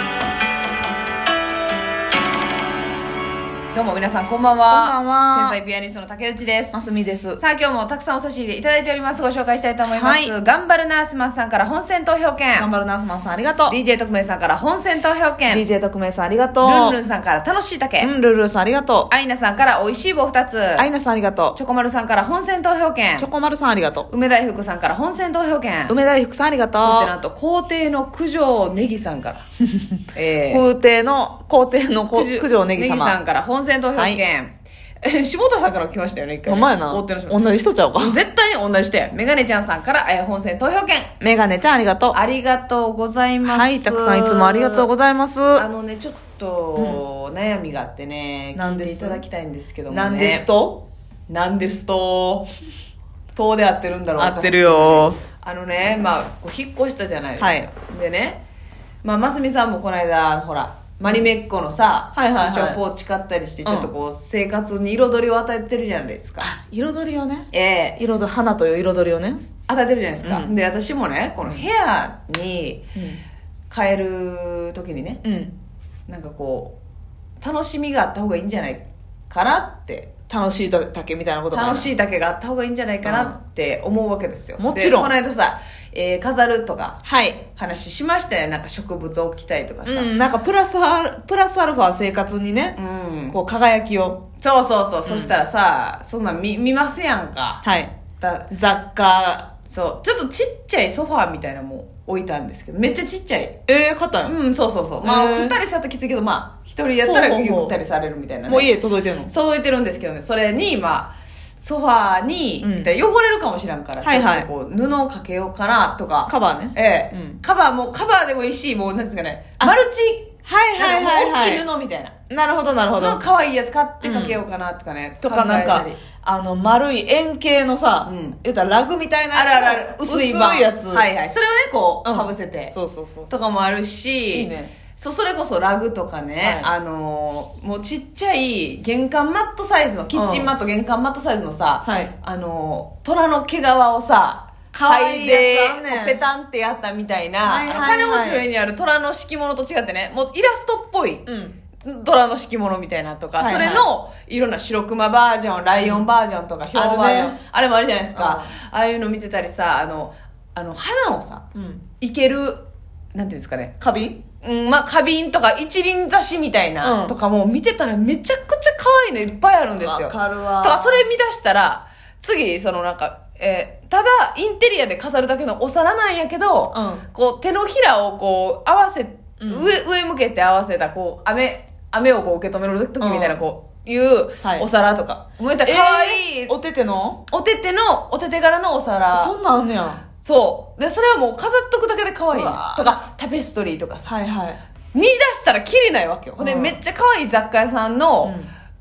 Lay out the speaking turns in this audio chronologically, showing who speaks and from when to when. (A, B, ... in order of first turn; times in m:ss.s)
0:03.7-0:06.8 A
0:04.7-0:05.6 B
0:06.7-0:07.4 B
0:07.4-0:12.7 A
0:09.9-0:10.3 B
0:12.6-0:13.8 B
0:13.7-0:15.6 A
0:15.5-0:17.0 B
0:16.6-0:18.1 A
0:18.0-0:19.1 B
0:19.1-0:20.9 A
0:20.8-0:21.6 B
0:21.6-0:23.3 A
0:23.2-0:24.1 B
0:24.1-0:26.0 A
0:25.9-0:27.1 B
0:26.8-0:29.4 A
0:30.1-0:30.6 A
0:30.5-0:33.2 B
0:32.1-0:41.1 A
0:34.0-0:34.2 B
0:36.4-0:38.2 B
0:41.2-0:42.2 B
0:42.1-0:44.9 A
0:43.4-0:45.7 B
0:45.6-0:50.4 A
0:48.6-0:49.2 B
0:49.9-0:50.8 B
0:51.3-0:52.5 A
0:53.3-0:58.4 A
0:54.2-0:55.2 B
0:57.4-0:57.7 B
0:59.0-1:06.5 A
1:02.2-1:02.8 B
1:03.6-1:03.9 B
1:06.4-1:09.4 B
1:07.5-1:08.0 A
1:09.7-1:12.8 A
1:10.2-1:10.5 B
1:12.9-1:13.2 B
1:13.7-1:15.2 A
1:15.2-1:15.5 B
1:16.1-1:16.7 A
1:17.4-1:20.1 A
1:20.3-1:21.9 B
1:21.5-1:27.0 A
1:23.0-1:23.3 B
1:24.6-1:25.1 B
1:27.0-1:27.4 B
1:27.5-1:30.1 A
1:29.8-1:32.8 B
1:32.8-1:33.4 A
1:33.3-1:34.2 B
1:34.4-1:37.6 A
1:35.0-1:35.3 B
1:37.6-1:37.9 B
1:38.2-1:38.5 A
1:38.5-1:39.5 B
1:39.6-1:43.6 A
1:43.7-1:44.3 B
1:44.2-1:48.7 A
1:45.0-1:45.6 B
1:47.0-1:47.8 B
1:48.4-1:49.3 B
1:49.2-2:02.1 A
1:52.6-1:52.9 B
1:54.0-1:54.5 B
1:56.3-1:57.4 B
2:00.4-2:01.6 B
2:02.3-2:03.2 B
2:03.0-2:06.0 A
2:04.0-2:04.4 B
2:05.2-2:11.1 B
2:08.0-2:08.4 A
2:09.3-2:12.7 A
2:12.0-2:13.3 B
2:13.3-2:31.2 A
2:14.3-2:14.7 B
2:16.4-2:16.7 B
2:20.1-2:20.5 B
2:21.8-2:22.1 B
2:24.7-2:26.2 B
2:27.4-2:28.4 B
2:31.3-2:31.6 B
2:31.8-2:41.4 A
2:33.4-2:33.9 B
2:35.8-2:36.1 B
2:36.7-2:37.4 B
2:38.1-2:38.5 B
2:41.5-2:41.8 B
2:42.0-2:42.6 A
2:43.1-2:43.7 A
2:43.8-2:44.2 B
2:44.4-3:06.5 A
2:46.8-2:47.1 B
2:49.8-2:51.0 B
2:56.7-2:57.0 B
2:59.4-2:59.8 B
3:03.0-3:03.4 B
3:05.6-3:07.2 B
3:07.3-3:09.3 A
3:09.1-3:10.0 B
3:10.2-3:14.1 A
3:12.3-3:13.0 B
3:14.1-3:14.6 B
3:14.9-3:18.3 A
3:16.4-3:16.8 B
3:18.2-3:18.5 B